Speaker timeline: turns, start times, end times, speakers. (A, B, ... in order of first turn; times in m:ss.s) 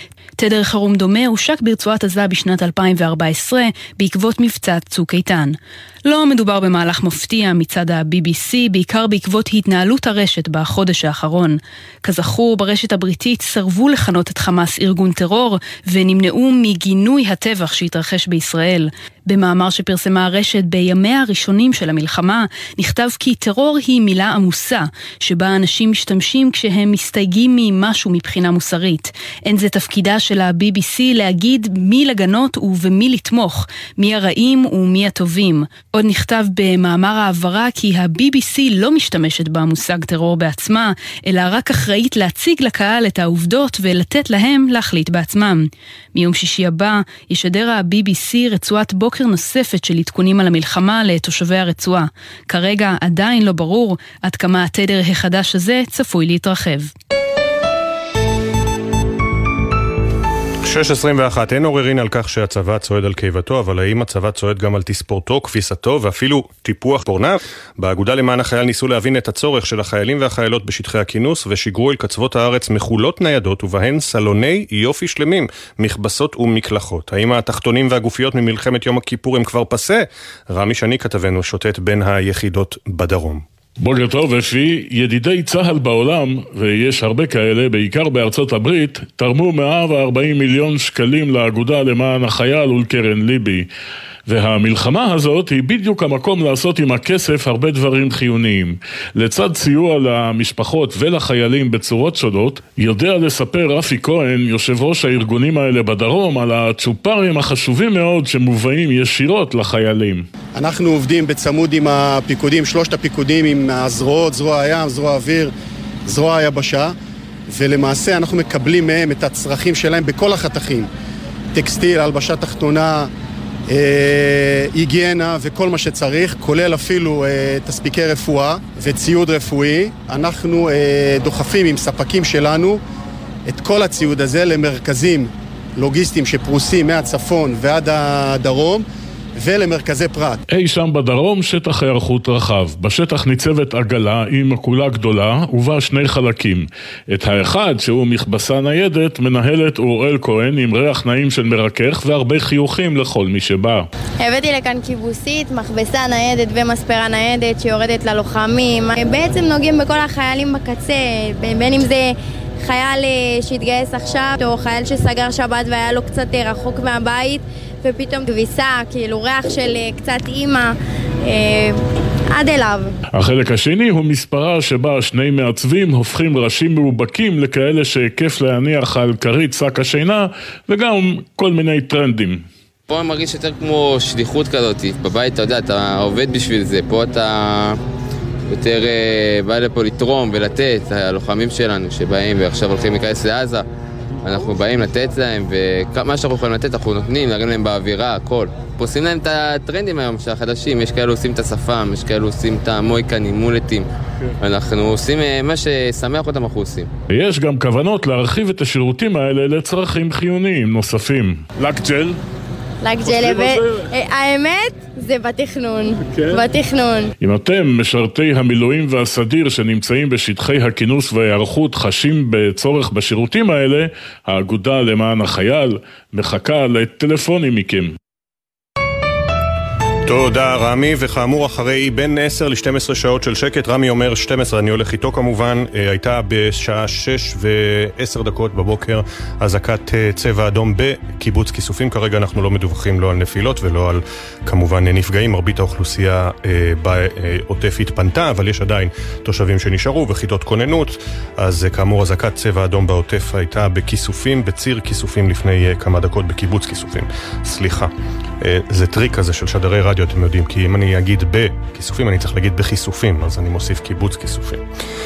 0:00.4-0:56.9 A
1:00.6-1:23.4 B
1:23.8-1:33.7 C
1:34.3-1:50.3 C
1:50.6-1:55.5 D
1:56.1-1:57.0 D
1:57.5-2:00.9 D
2:01.5-2:03.1 D
2:03.7-2:12.8 D
2:13.5-2:18.9 D
2:19.4-2:20.4 D
2:20.5-2:33.9 C
2:34.2-2:51.8 E
2:52.3-2:52.9 E
2:53.1-3:02.4 C
3:02.9-3:07.8 F
3:08.5-3:13.6 F
3:14.2-3:23.9 F
3:24.4-3:26.9 F
3:27.1-3:32.2 C
3:32.8-3:37.1 E
3:33.1-3:33.8 C
3:37.2-3:48.0 C
3:50.0-4:24.6 B